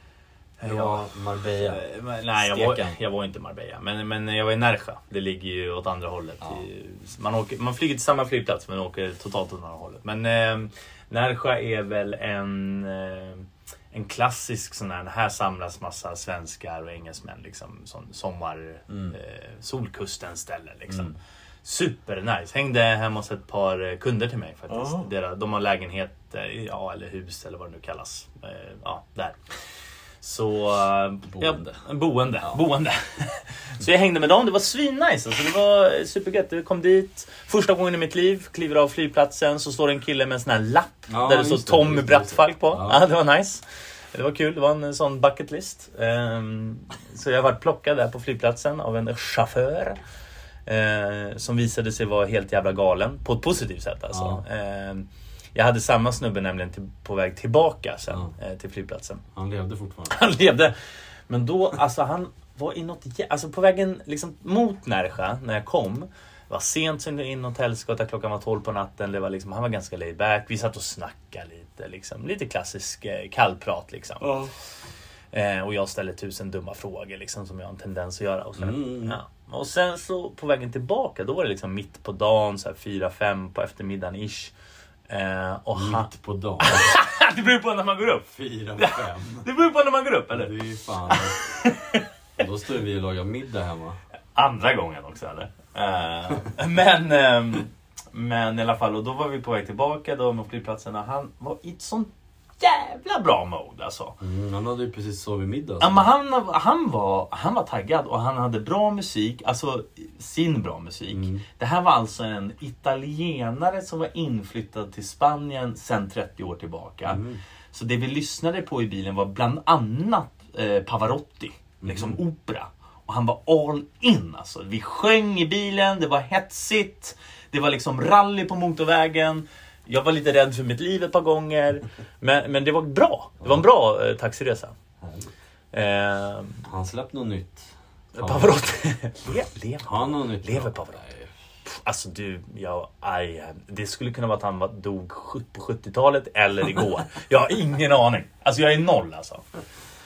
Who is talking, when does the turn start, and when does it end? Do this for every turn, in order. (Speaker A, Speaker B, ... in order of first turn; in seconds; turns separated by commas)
Speaker A: 0.6-29.4, Speaker B: 0.6-3.0, Speaker B: 18.9-19.2, Speaker B: 20.9-21.1, Speaker B: 24.8-25.0, Speaker A: 30.2-50.0, Speaker B: 31.3-31.8, Speaker B: 41.1-43.1, Speaker A: 50.7-59.2, Speaker B: 54.1-54.4, Speaker B: 59.3-60.2, Speaker A: 60.1-60.8, Speaker A: 61.3-74.4, Speaker B: 74.2-74.5, Speaker A: 75.3-84.5, Speaker B: 78.6-79.2, Speaker A: 85.1-86.1, Speaker B: 85.7-86.9, Speaker A: 86.6-90.5, Speaker B: 88.3-89.5, Speaker B: 90.3-91.5, Speaker A: 91.1-92.0, Speaker B: 92.4-94.0, Speaker A: 94.3-104.2, Speaker B: 104.2-106.0, Speaker A: 105.8-117.2, Speaker B: 111.1-111.4, Speaker B: 117.1-117.4, Speaker A: 117.7-134.8, Speaker B: 121.8-122.2, Speaker B: 135.0-135.3, Speaker A: 135.7-136.6, Speaker B: 136.6-138.6, Speaker A: 138.1-141.0, Speaker B: 139.8-141.3, Speaker A: 141.7-149.5